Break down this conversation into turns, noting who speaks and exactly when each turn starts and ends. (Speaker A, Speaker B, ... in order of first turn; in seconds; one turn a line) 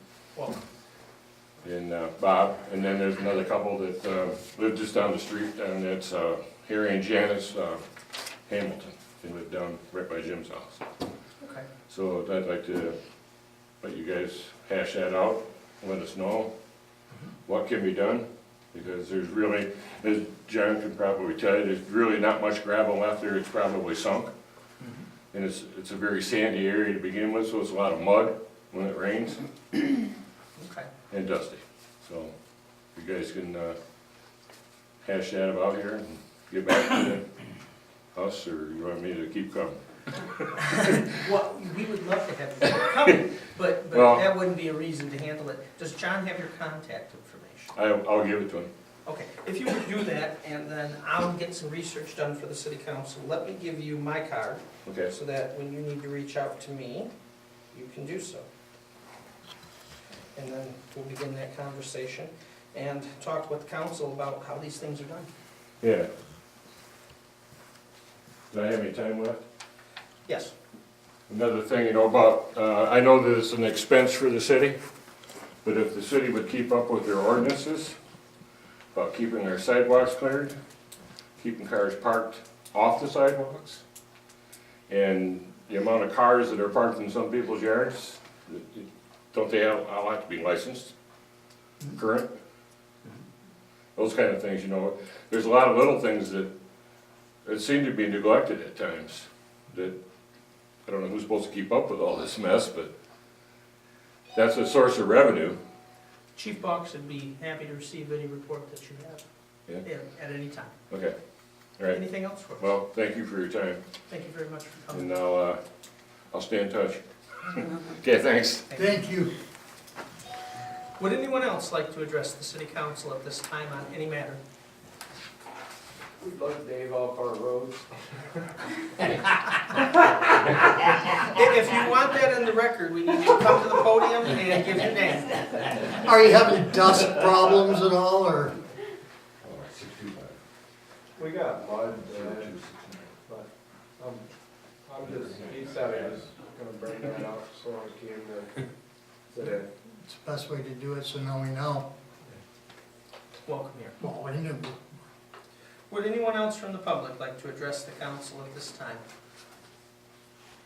Speaker A: 0.3-0.6
Speaker B: 1.6-7.9
Speaker B: 8.5-10.9
Speaker B: 11.9-13.0
Speaker B: 13.8-16.5
Speaker B: 17.5-24.3
Speaker A: 24.8-25.1
Speaker B: 25.3-29.4
Speaker A: 30.6-30.9
Speaker B: 31.1-32.3
Speaker B: 32.9-33.8
Speaker B: 35.0-37.3
Speaker B: 38.1-40.5
Speaker A: 40.6-47.7
Speaker B: 43.9-44.3
Speaker B: 47.8-48.7
Speaker A: 49.1-57.1
Speaker B: 54.9-55.1
Speaker A: 57.7-58.5
Speaker A: 60.4-65.3
Speaker B: 65.8-66.1
Speaker B: 68.5-69.4
Speaker A: 70.3-70.5
Speaker B: 71.3-74.8
Speaker B: 75.6-78.0
Speaker B: 78.9-80.5
Speaker B: 81.4-83.8
Speaker B: 84.9-90.9
Speaker B: 92.0-92.3
Speaker B: 94.0-96.5
Speaker B: 97.5-100.0
Speaker B: 100.9-102.9
Speaker B: 104.3-105.6
Speaker A: 106.3-109.2
Speaker A: 109.8-110.7
Speaker A: 111.9-112.6
Speaker B: 112.6-113.8
Speaker A: 114.1-115.1
Speaker B: 114.9-115.6
Speaker B: 116.3-117.0
Speaker B: 117.6-118.7
Speaker C: 118.7-119.3
Speaker A: 121.0-124.4
Speaker D: 126.2-128.0
Speaker A: 131.3-135.8
Speaker C: 136.0-138.6
Speaker B: 139.4-140.4
Speaker D: 141.2-142.5
Speaker B: 142.0-143.1
Speaker D: 144.0-144.2
Speaker D: 144.8-148.5
Speaker B: 145.0-146.3
Speaker D: 149.3-149.7
Speaker C: 150.0-151.9
Speaker A: 153.4-154.0
Speaker C: 154.0-154.8
Speaker A: 155.9-159.1